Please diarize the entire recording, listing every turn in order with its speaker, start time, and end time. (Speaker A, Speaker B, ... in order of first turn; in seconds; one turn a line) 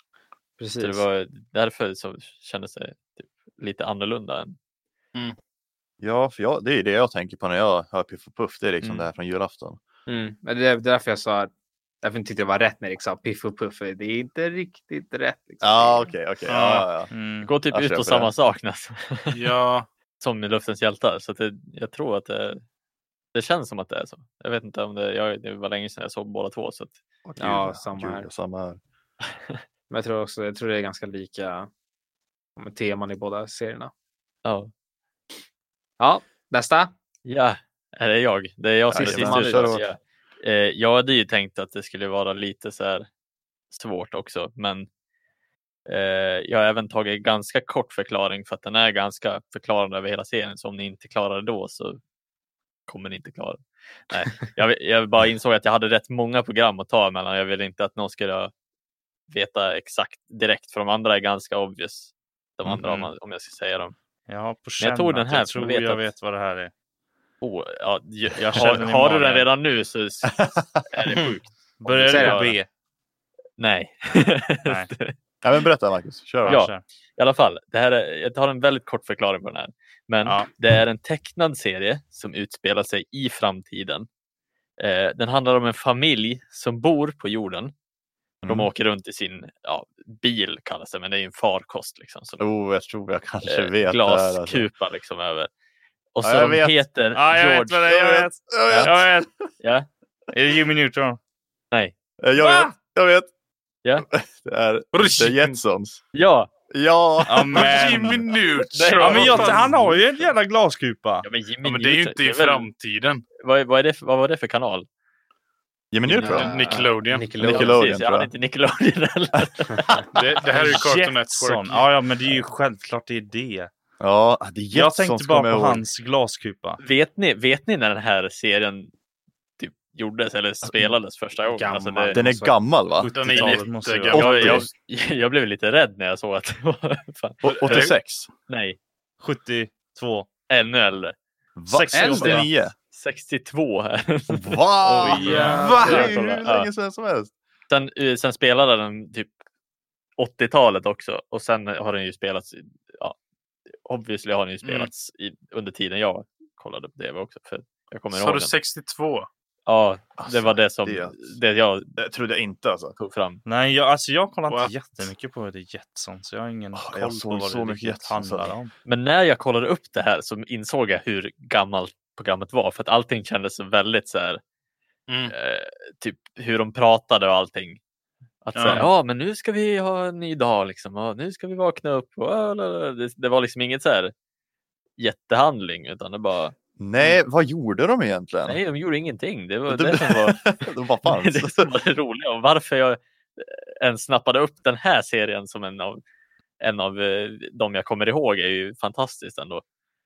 Speaker A: 0.6-1.1
Speaker B: 0.8-4.6
Speaker C: 6.0-9.8
Speaker A: 10.1-11.5
Speaker A: 12.0-16.1
Speaker C: 15.6-17.1
Speaker D: 16.5-16.9
Speaker E: 17.1-17.5
Speaker B: 17.4-19.5
Speaker C: 17.7-18.3
Speaker D: 19.3-19.9
Speaker B: 20.2-22.6
Speaker B: 23.3-26.9
Speaker C: 27.2-28.8
Speaker A: 27.4-28.3
Speaker A: 29.9-31.7
Speaker A: 32.6-33.9
Speaker B: 34.5-34.7
Speaker A: 36.0-36.9
Speaker B: 37.2-43.1
Speaker C: 38.9-39.8
Speaker A: 39.0-39.8
Speaker B: 43.7-44.9
Speaker B: 45.9-52.0
Speaker B: 52.9-58.5
Speaker B: 59.3-64.0
Speaker E: 64.3-66.7
Speaker B: 64.8-66.0
Speaker B: 67.4-72.6
Speaker E: 68.4-69.5
Speaker C: 70.4-70.8
Speaker E: 71.8-72.7
Speaker A: 72.0-72.5
Speaker B: 73.6-75.1
Speaker E: 74.7-74.9
Speaker C: 75.4-76.6
Speaker E: 76.5-76.8
Speaker B: 76.5-84.1
Speaker B: 84.8-87.7
Speaker C: 88.4-88.7
Speaker B: 88.5-92.4
Speaker C: 92.4-94.7
Speaker B: 93.5-95.5
Speaker B: 96.2-98.1
Speaker C: 96.2-96.8
Speaker E: 97.1-99.3
Speaker C: 97.9-99.2
Speaker B: 99.6-99.9
Speaker E: 100.3-101.2
Speaker C: 102.2-103.3
Speaker E: 102.4-102.7
Speaker C: 104.0-106.0
Speaker D: 104.9-105.6
Speaker B: 106.1-106.5
Speaker C: 106.7-108.2
Speaker E: 107.3-108.2
Speaker D: 107.4-109.7
Speaker B: 108.7-109.7
Speaker E: 109.0-111.3
Speaker C: 109.3-110.0
Speaker B: 111.2-112.7
Speaker D: 111.6-113.2
Speaker B: 113.4-114.9
Speaker C: 115.9-116.6
Speaker B: 116.1-116.7
Speaker A: 116.2-117.8
Speaker D: 116.3-117.3
Speaker C: 117.4-118.3
Speaker B: 117.4-120.0
Speaker D: 120.1-121.9
Speaker E: 120.5-123.7
Speaker C: 124.0-125.8
Speaker E: 124.7-126.8
Speaker B: 126.8-128.9
Speaker B: 129.6-132.2
Speaker A: 131.5-132.6
Speaker C: 132.1-133.5
Speaker E: 133.0-134.7
Speaker D: 133.1-134.7
Speaker C: 134.1-134.7
Speaker B: 134.2-137.9
Speaker C: 137.4-138.3
Speaker D: 137.5-137.9
Speaker B: 138.5-138.8
Speaker E: 139.2-140.3
Speaker B: 140.5-141.2
Speaker C: 141.6-142.7
Speaker E: 141.7-142.5
Speaker B: 142.1-146.7
Speaker C: 144.3-147.3
Speaker E: 144.9-146.1
Speaker D: 145.2-146.1
Speaker B: 147.7-149.3
Speaker B: 150.2-153.2
Speaker B: 153.8-158.5
Speaker D: 154.6-154.9
Speaker D: 158.1-159.3
Speaker B: 159.7-162.0
Speaker C: 160.2-161.4
Speaker C: 162.0-163.0
Speaker B: 163.0-163.4
Speaker E: 163.5-168.7
Speaker D: 164.5-164.7
Speaker C: 166.7-168.6
Speaker B: 168.8-174.4
Speaker D: 175.1-175.3
Speaker B: 175.3-177.8
Speaker B: 178.4-184.1
Speaker D: 178.5-178.9
Speaker B: 185.0-187.2
Speaker C: 186.8-188.6
Speaker B: 188.5-196.0
Speaker C: 189.7-191.7
Speaker B: 196.6-199.6